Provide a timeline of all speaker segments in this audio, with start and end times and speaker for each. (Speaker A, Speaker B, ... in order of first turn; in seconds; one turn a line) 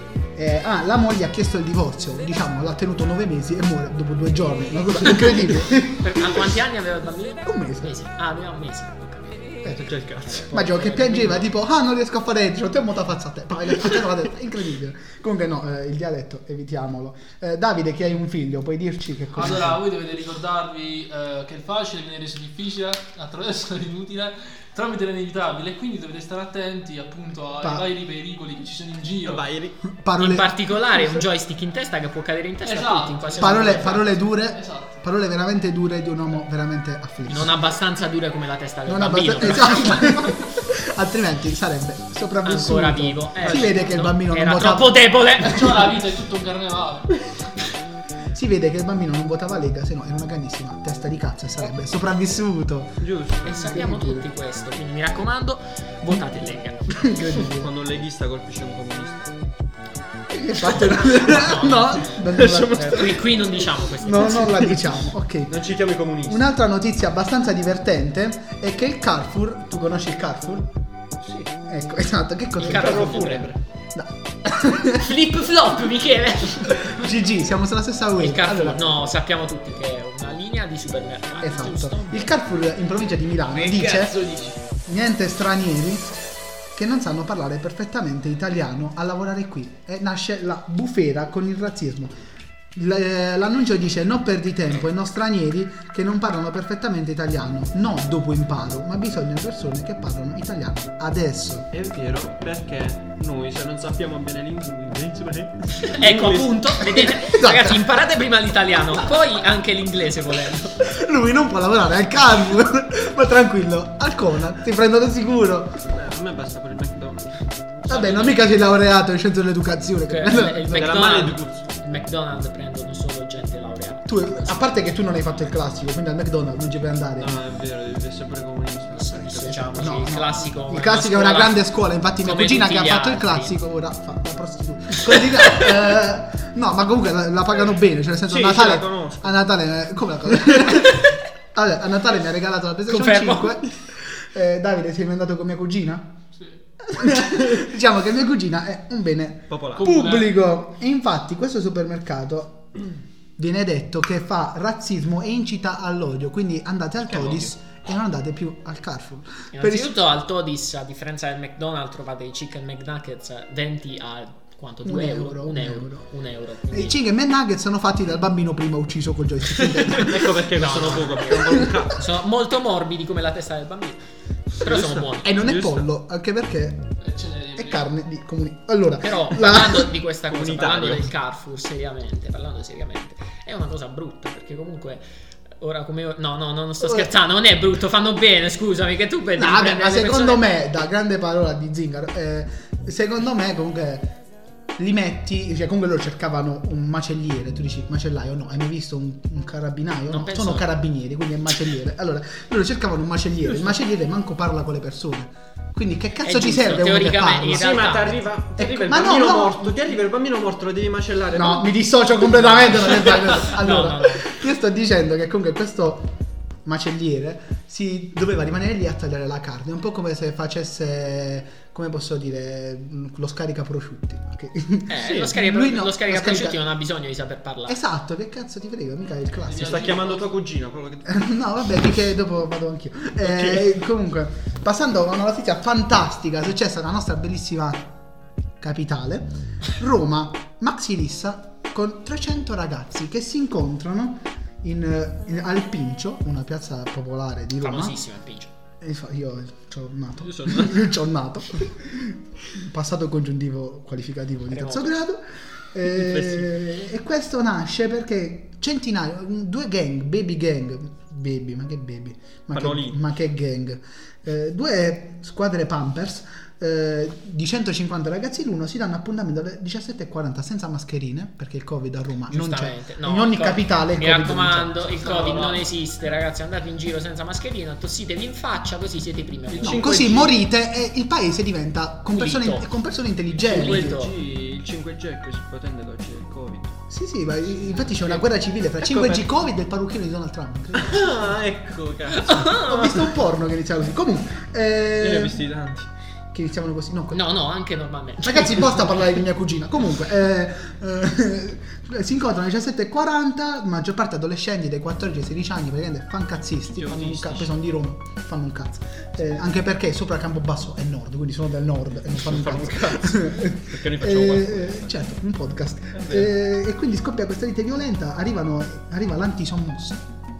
Speaker A: 0.3-6.5
Speaker B: 5.9-9.7
Speaker A: 7.4-7.9
Speaker C: 9.6-10.5
Speaker B: 10.2-11.5
Speaker A: 10.5-19.8
Speaker D: 19.3-29.4
Speaker A: 27.6-27.9
Speaker C: 29.2-29.8
Speaker A: 29.9-31.2
Speaker B: 30.2-34.0
Speaker D: 32.6-34.9
Speaker A: 33.4-37.5
Speaker B: 37.2-40.3
Speaker A: 38.9-45.8
Speaker B: 42.4-45.9
Speaker C: 43.4-43.7
Speaker D: 45.4-47.2
Speaker A: 48.3-54.3
Speaker C: 53.0-53.6
Speaker B: 53.4-57.1
Speaker A: 56.9-57.7
Speaker C: 57.4-59.4
Speaker A: 60.3-63.2
Speaker B: 61.1-62.2
Speaker C: 62.1-63.2
Speaker B: 62.7-64.9
Speaker A: 64.0-65.5
Speaker C: 64.5-64.8
Speaker C: 65.5-66.4
Speaker A: 66.2-70.7
Speaker C: 71.2-71.5
Speaker A: 71.7-75.0
Speaker B: 72.6-73.4
Speaker C: 72.6-73.6
Speaker B: 74.9-77.0
Speaker A: 76.7-78.9
Speaker B: 78.2-82.3
Speaker A: 81.4-84.2
Speaker C: 83.5-84.6
Speaker A: 84.8-86.1
Speaker A: 86.7-92.1
Speaker A: 92.7-101.7
Speaker C: 101.7-106.6
Speaker B: 105.7-110.8
Speaker A: 105.9-108.0
Speaker A: 110.8-115.8
Speaker C: 115.9-118.3
Speaker A: 117.9-121.0
Speaker B: 117.9-118.4
Speaker B: 120.1-124.9
Speaker C: 120.7-121.7
Speaker A: 124.1-127.4
Speaker C: 127.2-129.9
Speaker B: 128.9-131.6
Speaker A: 129.4-146.2
Speaker B: 132.2-133.5
Speaker C: 138.2-139.4
Speaker C: 140.4-140.7
Speaker B: 142.9-143.6
Speaker A: 146.8-152.7
Speaker C: 149.5-149.9
Speaker D: 149.7-150.4
Speaker A: 153.4-160.0
Speaker C: 157.0-157.8
Speaker B: 159.5-167.0
Speaker A: 164.8-166.0
Speaker A: 166.7-171.9
Speaker C: 169.8-172.0
Speaker B: 170.5-174.0
Speaker B: 174.5-175.3
Speaker A: 174.7-177.0
Speaker C: 175.3-175.9
Speaker D: 177.0-177.9
Speaker A: 177.6-179.9
Speaker B: 179.0-190.5
Speaker C: 180.3-181.1
Speaker A: 186.8-187.1
Speaker A: 189.4-194.2
Speaker A: 194.8-207.7
Speaker B: 200.1-200.7
Speaker B: 206.2-208.2
Speaker C: 207.5-211.8
Speaker A: 208.6-209.8
Speaker A: 211.3-216.1
Speaker C: 212.3-213.2
Speaker B: 213.3-214.3
Speaker A: 216.6-226.6
Speaker B: 224.9-227.8
Speaker A: 227.7-230.0
Speaker D: 229.4-230.3
Speaker C: 229.6-231.2
Speaker A: 231.1-237.9
Speaker C: 233.2-233.7
Speaker A: 238.6-248.0
Speaker B: 247.6-248.5
Speaker A: 248.8-274.9
Speaker C: 250.2-250.9
Speaker B: 254.5-254.9
Speaker C: 255.8-256.5
Speaker C: 262.5-263.0
Speaker B: 272.3-280.0
Speaker D: 275.0-275.6
Speaker D: 279.5-279.9
Speaker C: 279.6-280.4
Speaker A: 279.6-284.1
Speaker B: 282.1-282.7
Speaker C: 283.4-286.8
Speaker B: 283.4-284.1
Speaker A: 286.9-291.4
Speaker C: 287.9-288.2
Speaker C: 288.8-289.2
Speaker C: 290.7-292.7
Speaker B: 292.2-292.9
Speaker A: 292.3-295.4
Speaker C: 295.0-295.9
Speaker A: 296.3-297.2
Speaker B: 297.1-299.0
Speaker A: 298.2-320.0
Speaker C: 306.7-307.6
Speaker C: 312.1-314.9
Speaker C: 315.9-316.3